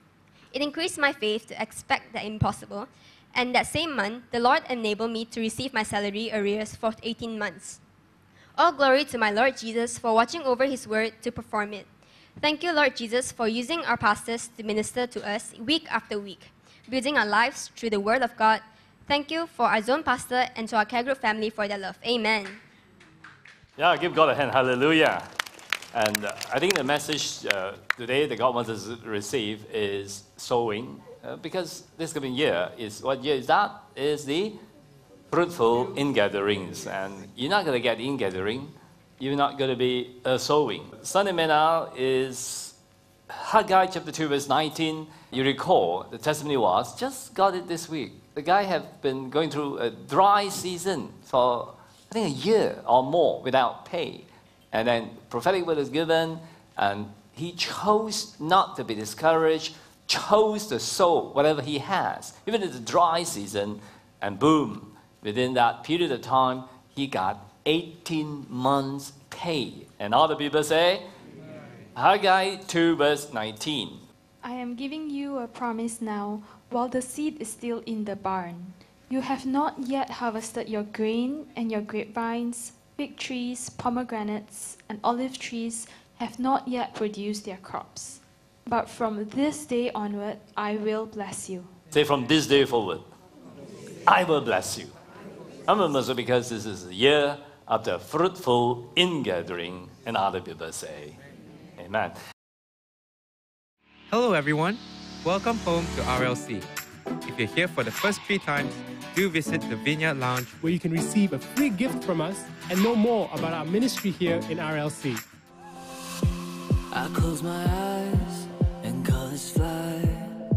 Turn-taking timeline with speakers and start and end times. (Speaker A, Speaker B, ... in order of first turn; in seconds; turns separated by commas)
Speaker A: 0.5-7.8, Speaker A: 8.6-11.9, Speaker A: 12.4-22.6, Speaker B: 23.8-25.3, Speaker B: 25.9-34.6, Speaker B: 35.3-42.8, Speaker B: 43.3-71.0, Speaker B: 72.0-74.0, Speaker C: 74.4-91.7, Speaker B: 91.9-93.1, Speaker B: 94.1-94.9, Speaker B: 95.7-101.2, Speaker B: 101.8-102.2, Speaker D: 104.1-106.7, Speaker D: 107.3-110.6, Speaker E: 110.6-115.2, Speaker F: 116.9-120.4